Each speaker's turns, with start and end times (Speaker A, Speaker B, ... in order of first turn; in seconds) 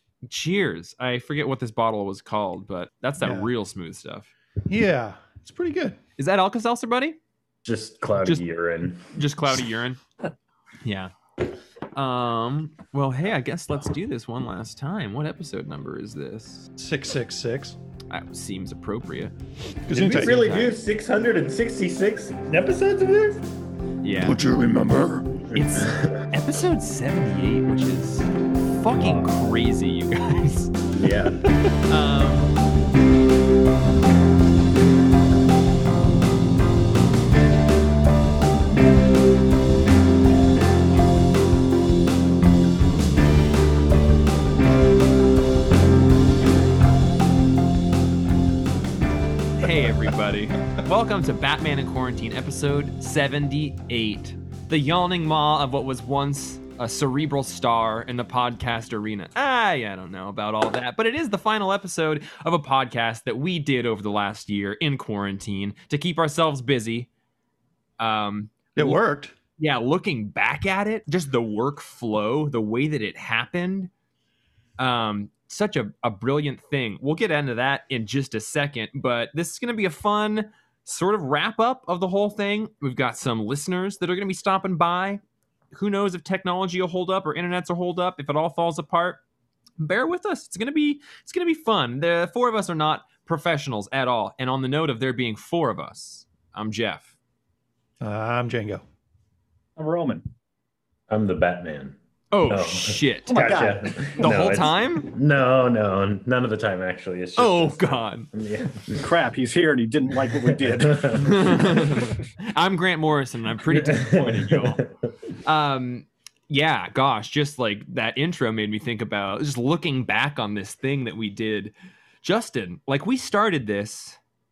Speaker A: 0.2-4.3, 6.2-7.2, 9.1-10.0, 10.8-11.1, 11.9-16.7, 18.1-19.3, 19.9-20.8, 24.0-24.4, 25.5-30.7, 31.9-32.5, 49.6-67.1, 68.0-69.0, 69.6-73.9, 74.8-85.2, 85.7-89.2, 89.8-97.1, 102.3-103.4, 104.2-105.1, 107.4-108.3, 111.2-112.0, 112.5-114.8, 115.4-124.2
Speaker B: 3.2-3.5, 4.6-6.0, 16.8-17.8, 19.9-20.4, 24.2-25.4, 68.8-69.3, 98.0-98.8
Speaker C: 7.6-9.1, 19.9-23.4, 25.5-26.2, 28.9-29.3, 30.9-31.4, 101.1-102.0, 102.5-109.1, 110.3-112.0, 113.7-114.9
Speaker D: 99.8-100.2, 103.3-104.3, 109.0-112.0